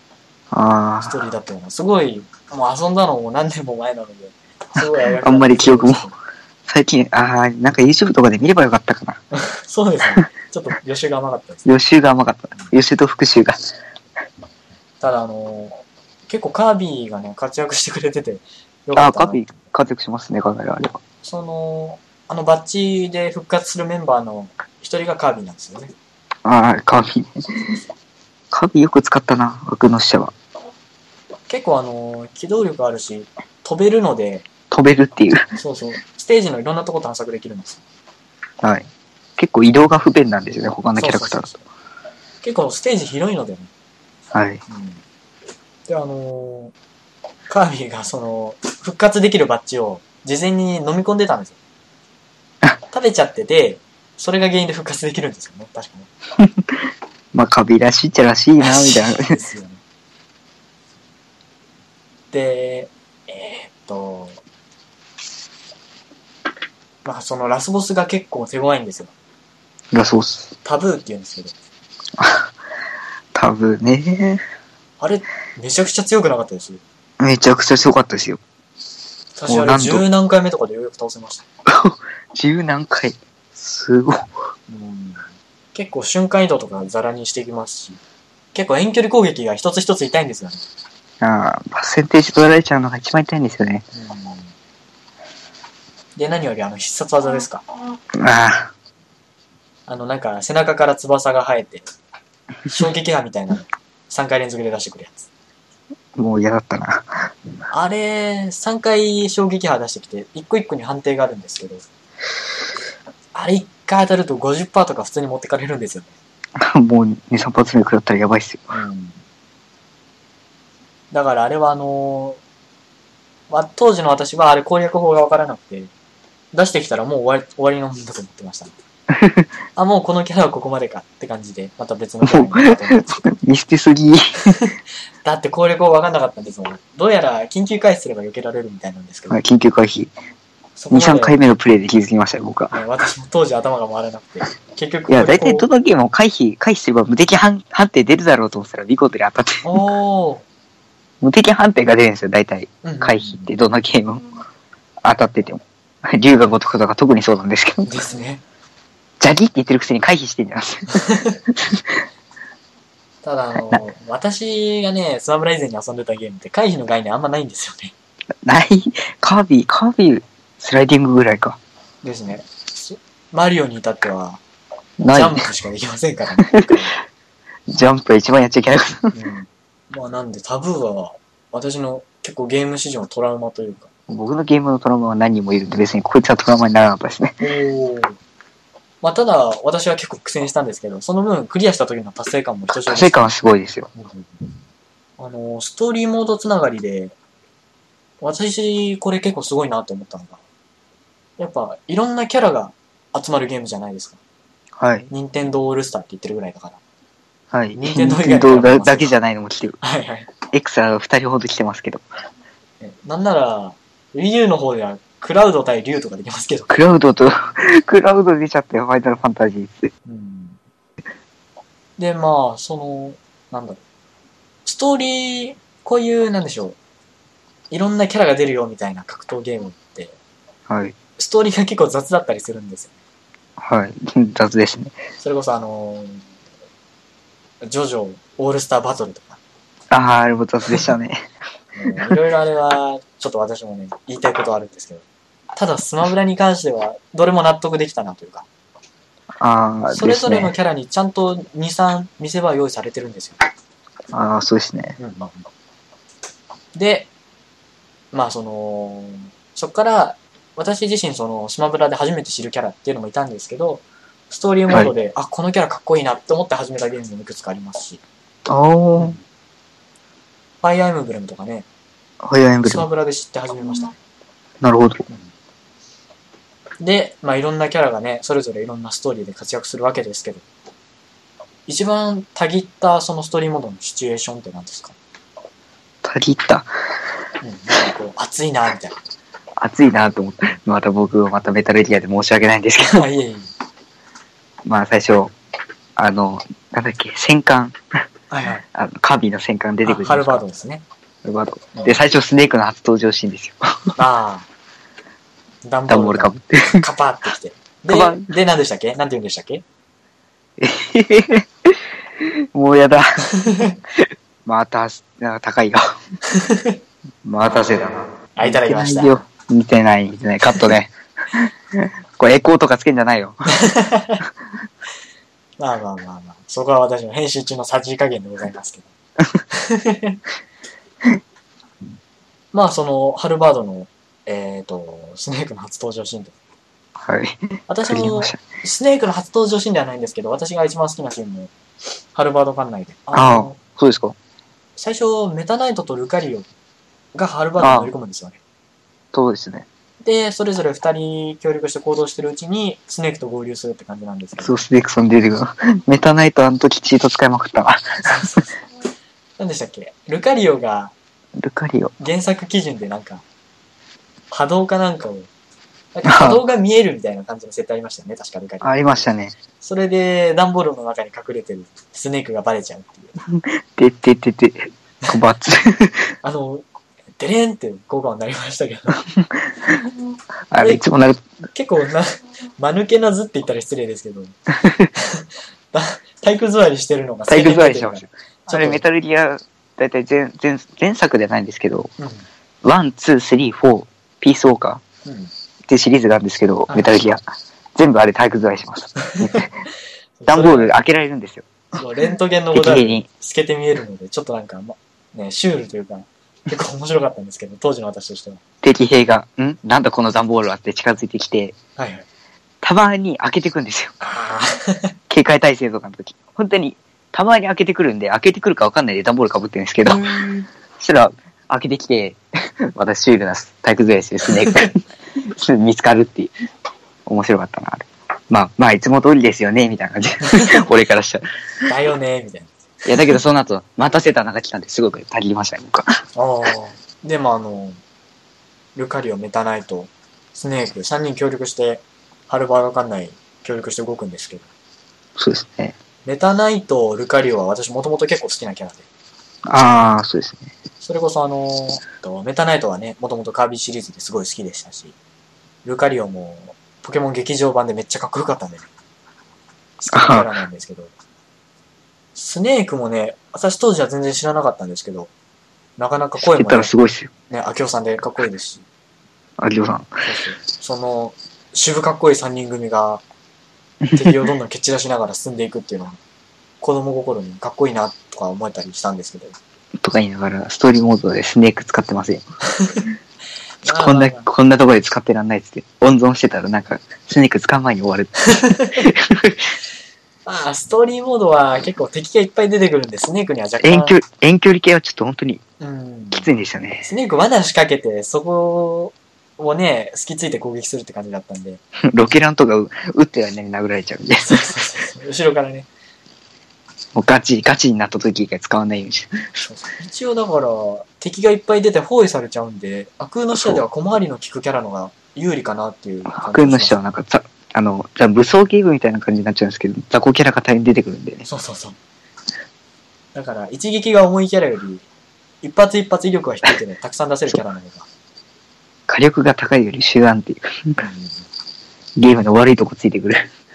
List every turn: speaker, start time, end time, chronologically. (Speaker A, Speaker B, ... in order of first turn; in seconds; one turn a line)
Speaker A: 0.5-1.2
Speaker B: 1.0-6.1
Speaker A: 4.8-6.1
Speaker A: 6.7-9.2
Speaker B: 9.3-11.7
Speaker A: 11.7-13.6
Speaker B: 15.0-19.4
Speaker A: 19.0-21.0
Speaker B: 21.2-25.9
Speaker A: 26.4-27.7
Speaker A: 28.5-30.3
Speaker B: 31.5-34.5
Speaker A: 34.7-35.5
Speaker B: 35.6-37.8
Speaker A: 38.6-41.5
Speaker B: 41.0-41.6
Speaker B: 42.4-43.7
Speaker A: 44.3-44.6
Speaker B: 44.7-45.0
Speaker B: 45.9-46.7
Speaker B: 47.5-51.6
Speaker B: 52.9-56.1
Speaker A: 56.4-56.7
Speaker A: 57.3-59.4
Speaker B: 58.6-59.8
Speaker B: 62.3-64.4
Speaker B: 67.0-69.1
Speaker A: 69.9-70.5
Speaker B: 70.6-71.5
Speaker A: 72.2-72.5
Speaker A: 73.3-74.4
Speaker B: 75.0-76.8
Speaker A: 77.2-78.4
Speaker B: 79.4-81.4
Speaker A: 79.5-80.0
Speaker A: 81.7-84.3
Speaker B: 84.7-88.0
Speaker B: 88.5-90.6
Speaker A: 91.2-93.8
Speaker B: 93.9-94.5
Speaker B: 96.2-97.7
Speaker A: 98.2-98.7
Speaker B: 99.9-101.9
Speaker B: 102.7-105.3
Speaker A: 106.2-107.3
Speaker B: 107.7-111.8
Speaker B: 113.3-116.1
Speaker A: 116.6-118.8
Speaker B: 118.7-119.2
Speaker B: 121.1-122.4
Speaker B: 123.5-125.9
Speaker B: 126.5-128.7
Speaker A: 129.1-129.5
Speaker B: 129.8-133.3
Speaker A: 132.2-134.5
Speaker B: 135.2-139.4
Speaker A: 139.3-140.1
Speaker B: 140.8-141.4
Speaker A: 140.9-142.8
Speaker B: 142.7-145.7
Speaker A: 145.1-149.7
Speaker B: 149.6-150.4
Speaker A: 151.2-154.3
Speaker B: 152.8-153.5
Speaker A: 155.0-157.9
Speaker B: 157.9-158.4
Speaker A: 159.2-162.0
Speaker B: 160.9-161.4
Speaker B: 163.2-167.9
Speaker A: 168.4-171.6
Speaker B: 172.0-174.4
Speaker A: 175.0-175.4
Speaker B: 175.1-177.0
Speaker A: 177.7-179.1
Speaker B: 179.1-183.9
Speaker A: 184.1-187.4
Speaker B: 187.4-188.2
Speaker B: 189.0-193.3
Speaker A: 192.7-193.9
Speaker B: 193.9-194.4
Speaker B: 195.2-197.2
Speaker B: 198.2-200.4
Speaker B: 201.4-204.2
Speaker A: 204.8-205.1
Speaker B: 205.1-206.8
Speaker A: 207.5-209.8
Speaker B: 207.8-209.1
Speaker B: 209.8-210.3
Speaker A: 210.5-212.1
Speaker B: 212.8-216.7
Speaker A: 216.7-219.9
Speaker B: 220.1-220.6
Speaker B: 222.0-223.8
Speaker B: 224.7-226.8
Speaker B: 227.7-230.2
Speaker A: 230.7-230.9
Speaker B: 231.2-232.9
Speaker A: 233.6-235.0
Speaker B: 235.2-236.2
Speaker B: 237.6-239.4
Speaker A: 239.9-241.2
Speaker B: 241.8-248.5
Speaker A: 249.4-250.5
Speaker B: 249.9-253.4
Speaker A: 254.1-255.0
Speaker B: 255.0-255.5
Speaker B: 256.8-257.1
Speaker B: 258.1-268.0
Speaker A: 268.5-269.2
Speaker B: 270.6-271.7
Speaker A: 272.2-272.9
Speaker B: 272.6-273.9
Speaker A: 274.6-275.1
Speaker B: 276.8-280.4
Speaker B: 281.7-284.9
Speaker A: 286.0-286.7
Speaker B: 287.4-289.0
Speaker A: 289.6-293.1
Speaker B: 292.8-293.5
Speaker A: 294.7-295.3
Speaker A: 296.0-297.8
Speaker B: 298.3-298.6
Speaker A: 298.7-300.4
Speaker B: 299.8-300.9
Speaker A: 301.2-304.0
Speaker B: 301.7-302.0
Speaker B: 304.0-304.5
Speaker B: 305.6-309.6
Speaker A: 305.9-306.8
Speaker A: 307.9-308.3
Speaker A: 310.6-313.3
Speaker B: 313.4-313.8
Speaker A: 314.0-316.0
Speaker B: 316.3-316.8
Speaker A: 317.2-323.5
Speaker B: 318.4-319.2
Speaker B: 323.5-324.2
Speaker B: 325.6-328.9
Speaker B: 329.5-330.2
Speaker B: 332.5-336.3
Speaker A: 337.0-338.4
Speaker B: 337.7-341.5
Speaker B: 342.1-343.6
Speaker A: 343.1-344.2
Speaker B: 344.8-346.5
Speaker B: 347.1-348.4
Speaker A: 347.6-347.9
Speaker A: 349.1-349.7
Speaker B: 350.0-354.6
Speaker A: 354.4-358.3
Speaker B: 358.1-358.5
Speaker B: 359.4-360.9
Speaker A: 361.4-361.9
Speaker B: 362.0-363.2
Speaker B: 364.3-365.3
Speaker B: 365.9-369.1
Speaker A: 366.1-366.4
Speaker A: 368.6-369.3
Speaker B: 369.6-373.1
Speaker A: 373.3-376.1
Speaker B: 376.2-376.7
Speaker B: 377.2-379.0
Speaker A: 379.2-379.9
Speaker A: 380.5-381.2
Speaker B: 380.6-380.8
Speaker B: 381.5-384.4
Speaker B: 385.0-388.8
Speaker A: 387.3-391.9
Speaker B: 392.0-392.2
Speaker A: 392.6-394.8
Speaker B: 395.1-395.3
Speaker A: 395.7-397.2
Speaker B: 396.7-397.0
Speaker A: 397.8-399.5
Speaker B: 399.1-399.4
Speaker B: 400.2-400.7
Speaker A: 400.3-401.5
Speaker B: 401.7-408.4
Speaker A: 402.5-403.1
Speaker A: 408.6-411.6
Speaker B: 411.8-412.1
Speaker A: 412.6-413.9
Speaker B: 414.0-414.9
Speaker A: 415.1-420.1
Speaker B: 419.9-420.5
Speaker A: 420.8-422.2
Speaker A: 422.7-426.3
Speaker A: 427.1-431.2
Speaker B: 431.7-432.5
Speaker A: 432.9-435.9
Speaker B: 436.1-437.8
Speaker B: 438.8-444.5
Speaker A: 445.2-445.8
Speaker B: 446.1-448.9
Speaker A: 449.5-450.5
Speaker B: 450.8-454.9
Speaker B: 455.6-458.6
Speaker B: 459.8-460.9
Speaker A: 459.9-460.3
Speaker B: 462.1-465.1
Speaker B: 465.8-466.7
Speaker A: 466.2-467.1
Speaker B: 467.3-468.6
Speaker A: 469.4-470.0
Speaker B: 470.0-473.0
Speaker A: 473.9-474.1
Speaker B: 473.9-476.0
Speaker B: 476.6-479.4
Speaker A: 479.8-482.2
Speaker B: 483.6-484.3
Speaker A: 483.6-489.5
Speaker B: 488.4-488.7
Speaker B: 490.3-494.0
Speaker A: 493.6-495.4
Speaker B: 495.6-496.3
Speaker A: 496.1-496.9
Speaker B: 496.8-501.6
Speaker A: 501.9-504.6
Speaker B: 504.2-505.7
Speaker A: 506.9-509.4
Speaker B: 509.4-516.8
Speaker A: 513.3-513.6
Speaker A: 516.1-521.2
Speaker B: 521.2-521.8
Speaker B: 523.1-524.9
Speaker B: 525.4-527.9
Speaker A: 528.9-530.8
Speaker B: 530.8-531.2
Speaker A: 532.0-533.3